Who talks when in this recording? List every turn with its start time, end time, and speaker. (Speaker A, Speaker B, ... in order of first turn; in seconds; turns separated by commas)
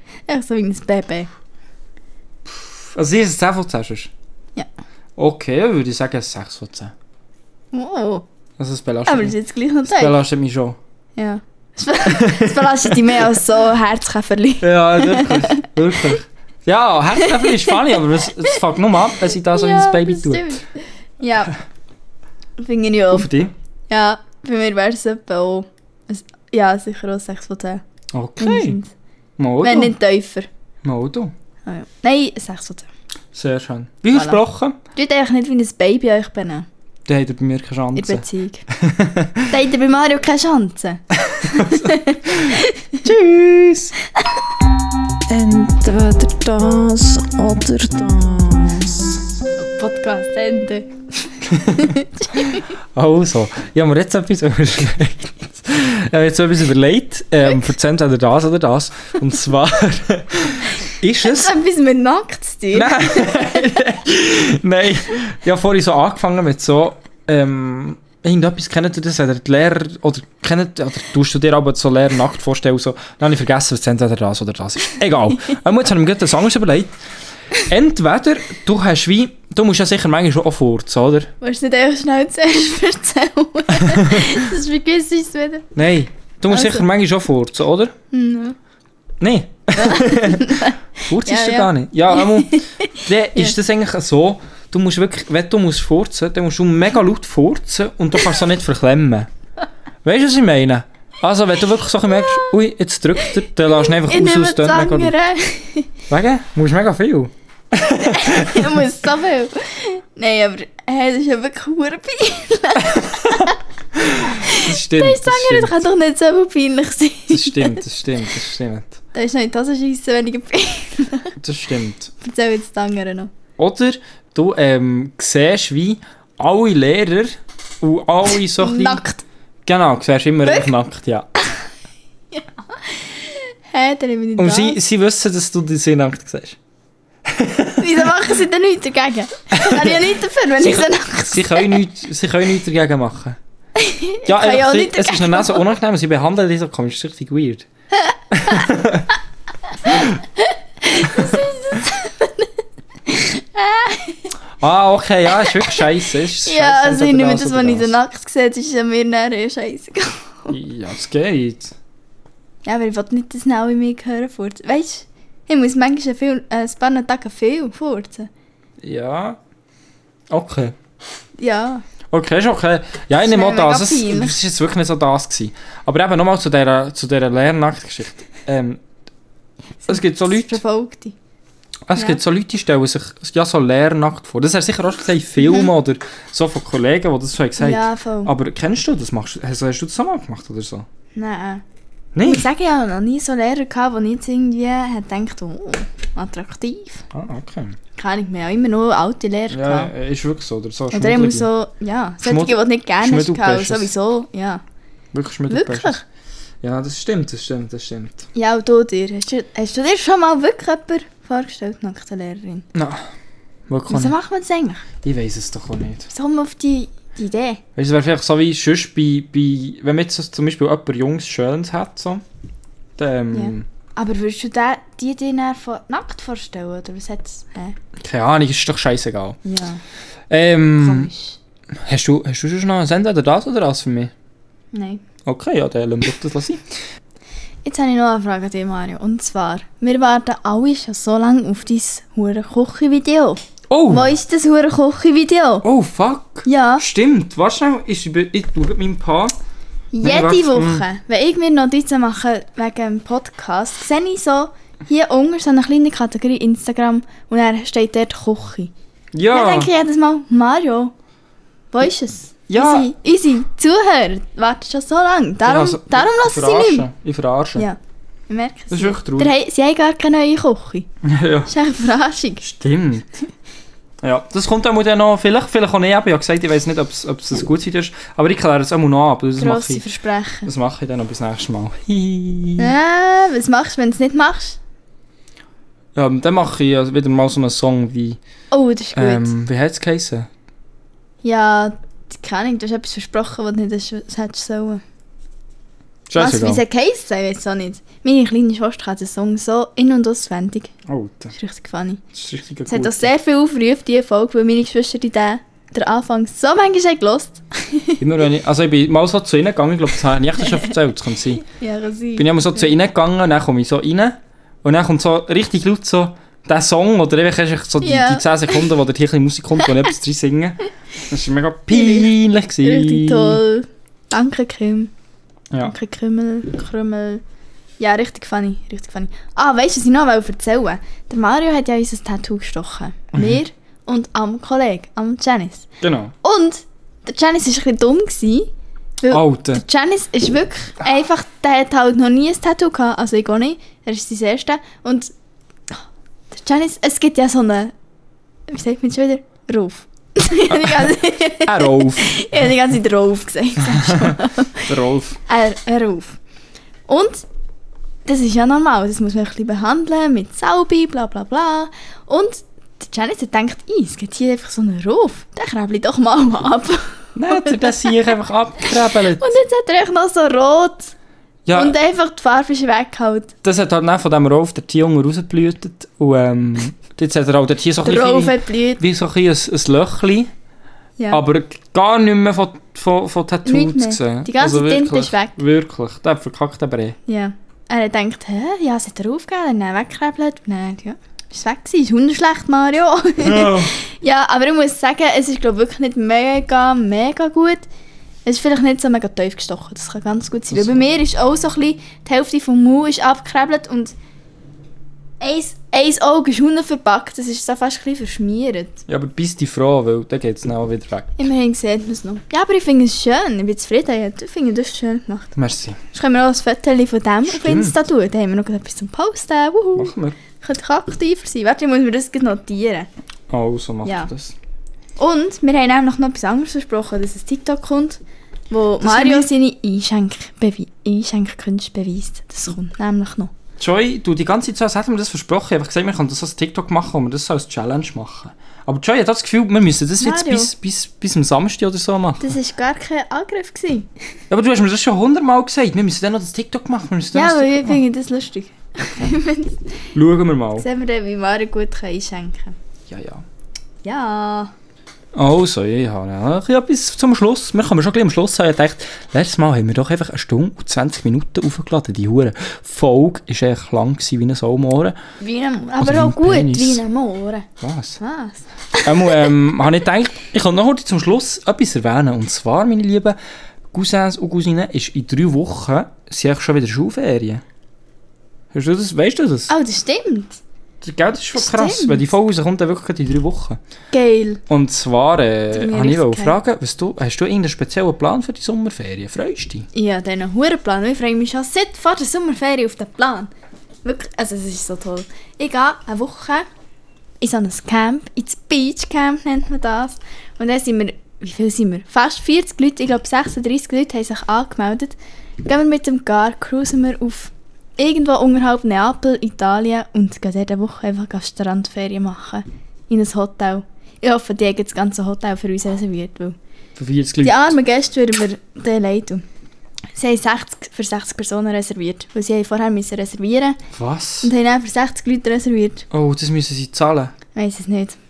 Speaker A: 0.3-1.3, Speaker B: 2.5-4.1, Speaker B: 5.2-6.9, Speaker A: 7.7-8.2, Speaker B: 8.6-10.8, Speaker A: 9.1-10.2, Speaker A: 11.2-15.7, Speaker B: 12.1-13.2, Speaker B: 14.6-20.6, Speaker A: 17.2-17.8, Speaker A: 19.4-21.6, Speaker A: 22.6-23.3, Speaker B: 23.1-23.5, Speaker A: 23.9-27.8, Speaker B: 28.1-28.8, Speaker A: 28.4-28.9, Speaker B: 29.4-29.9, Speaker A: 29.6-30.5, Speaker B: 30.8-31.3, Speaker A: 31.7-32.9, Speaker B: 33.3-34.8, Speaker A: 34.1-34.4, Speaker A: 34.9-36.7, Speaker B: 37.1-39.5, Speaker A: 38.0-38.7, Speaker A: 39.5-43.0, Speaker B: 41.3-44.0, Speaker B: 45.3-49.2, Speaker A: 49.6-50.9, Speaker B: 51.5-51.9, Speaker A: 51.7-52.7, Speaker B: 52.9-61.5, Speaker A: 61.2-63.8, Speaker B: 62.7-76.9, Speaker B: 77.6-81.3, Speaker A: 81.4-85.7, Speaker B: 83.8-84.3, Speaker B: 85.8-87.9, Speaker A: 86.5-86.8, Speaker A: 88.1-88.6, Speaker B: 89.2-99.3, Speaker A: 89.8-93.5, Speaker B: 100.0-105.1, Speaker A: 104.0-105.9, Speaker B: 106.1-108.8, Speaker A: 107.9-113.6, Speaker B: 113.0-113.4, Speaker B: 114.0-115.8, Speaker A: 114.2-117.8, Speaker B: 117.3-119.0, Speaker A: 119.1-121.3, Speaker B: 121.4-122.1, Speaker A: 122.2-123.3, Speaker B: 123.6-129.0, Speaker A: 128.6-129.2, Speaker B: 129.7-131.3, Speaker A: 132.3-134.8, Speaker B: 134.4-136.6, Speaker B: 137.2-138.1, Speaker A: 137.8-141.8, Speaker B: 139.5-140.1, Speaker B: 140.6-143.4, Speaker A: 143.8-145.6, Speaker B: 144.3-147.7, Speaker B: 148.3-149.1, Speaker B: 149.9-150.1, Speaker A: 149.9-152.5, Speaker A: 153.1-154.3, Speaker B: 154.6-158.0, Speaker A: 155.5-155.8, Speaker A: 156.4-160.6, Speaker B: 160.5-161.7, Speaker A: 162.7-168.3, Speaker B: 168.8-169.4, Speaker B: 170.3-170.8, Speaker A: 171.4-171.8, Speaker B: 172.1-178.8, Speaker A: 173.2-174.4, Speaker A: 179.8-181.2, Speaker B: 179.9-180.6, Speaker B: 181.9-190.9, Speaker A: 185.4-185.7, Speaker A: 187.6-188.3, Speaker A: 191.2-191.6, Speaker B: 192.2-192.5, Speaker A: 192.2-197.0, Speaker B: 197.1-197.8, Speaker A: 198.0-199.9, Speaker B: 199.5-201.5, Speaker A: 200.9-204.6, Speaker B: 202.2-203.9, Speaker B: 205.1-206.0, Speaker A: 205.5-206.0, Speaker B: 206.6-208.3, Speaker A: 208.3-212.7, Speaker B: 212.7-213.1, Speaker B: 213.7-214.2, Speaker A: 213.9-214.9, Speaker B: 215.0-216.1, Speaker A: 216.1-217.6, Speaker B: 217.8-222.2, Speaker B: 223.0-223.7, Speaker A: 223.3-227.8, Speaker B: 228.0-229.4, Speaker A: 229.4-229.8, Speaker B: 230.3-231.1, Speaker A: 230.8-231.4, Speaker B: 231.8-234.1, Speaker A: 234.7-235.0, Speaker B: 235.2-236.6, Speaker A: 237.7-245.7, Speaker B: 243.7-244.1, Speaker B: 245.6-249.3, Speaker A: 246.4-246.8, Speaker A: 249.9-258.7, Speaker B: 250.0-250.8, Speaker B: 259.1-259.7, Speaker A: 259.3-260.9, Speaker A: 261.7-266.9, Speaker B: 262.5-262.9, Speaker B: 265.4-267.7, Speaker A: 267.6-270.9, Speaker B: 268.7-269.3, Speaker B: 271.0-271.5, Speaker A: 271.5-272.4, Speaker B: 272.4-273.2, Speaker B: 274.0-279.9, Speaker A: 279.4-280.5, Speaker B: 280.4-282.7, Speaker A: 282.6-284.6, Speaker B: 285.9-288.2, Speaker A: 288.5-289.3, Speaker B: 288.9-290.3, Speaker A: 291.2-294.8, Speaker B: 296.1-296.6, Speaker A: 296.2-300.7, Speaker B: 300.9-301.4, Speaker A: 301.4-302.0, Speaker B: 302.1-303.1, Speaker A: 302.7-308.0, Speaker B: 308.0-311.4, Speaker A: 311.4-312.7, Speaker B: 312.2-323.4, Speaker A: 317.8-318.2, Speaker A: 321.7-322.1, Speaker A: 322.6-324.9, Speaker A: 325.6-327.2, Speaker A: 327.8-335.7, Speaker B: 333.1-333.4, Speaker B: 335.8-336.1, Speaker A: 336.2-345.1, Speaker B: 339.1-339.6, Speaker A: 346.3-347.7, Speaker A: 348.5-354.7, Speaker B: 350.5-352.3, Speaker B: 353.7-354.1, Speaker B: 354.7-355.2, Speaker A: 355.3-356.2, Speaker A: 356.9-357.3, Speaker A: 358.1-367.9, Speaker B: 367.1-369.3, Speaker A: 369.2-370.9, Speaker B: 371.5-371.8, Speaker A: 371.5-373.3, Speaker B: 373.4-380.3, Speaker A: 377.8-378.8, Speaker B: 381.1-387.0, Speaker A: 383.4-385.3, Speaker A: 387.1-397.7, Speaker B: 393.2-393.7, Speaker A: 398.2-403.9, Speaker B: 400.5-400.8, Speaker A: 405.2-408.8, Speaker B: 408.9-411.3, Speaker A: 411.2-415.3, Speaker B: 415.4-415.8, Speaker A: 415.9-422.9, Speaker B: 417.3-417.8, Speaker B: 419.8-420.2, Speaker B: 423.3-424.4, Speaker A: 423.9-424.1, Speaker A: 425.0-428.0, Speaker A: 428.5-433.3, Speaker B: 428.8-429.3, Speaker B: 433.6-442.3, Speaker A: 440.0-440.5, Speaker A: 442.2-443.9, Speaker B: 444.3-447.8, Speaker A: 447.1-449.8, Speaker B: 449.9-450.7, Speaker A: 450.6-452.6, Speaker B: 452.9-453.2, Speaker A: 453.8-454.5, Speaker B: 455.1-465.0, Speaker A: 465.2-467.5, Speaker B: 465.8-466.8, Speaker B: 467.6-468.0, Speaker A: 468.0-469.3, Speaker B: 468.8-473.2, Speaker B: 473.7-477.4, Speaker B: 478.5-479.5, Speaker A: 479.5-480.4, Speaker B: 480.8-483.6, Speaker A: 481.4-482.0, Speaker A: 483.9-484.4, Speaker B: 484.5-489.7, Speaker A: 485.5-486.4, Speaker A: 489.7-493.3, Speaker A: 493.8-496.5, Speaker A: 497.2-516.4, Speaker B: 516.8-517.5, Speaker A: 517.2-519.2, Speaker A: 520.0-523.6, Speaker B: 523.7-524.3, Speaker A: 524.2-525.9, Speaker B: 525.9-527.1, Speaker A: 527.4-528.0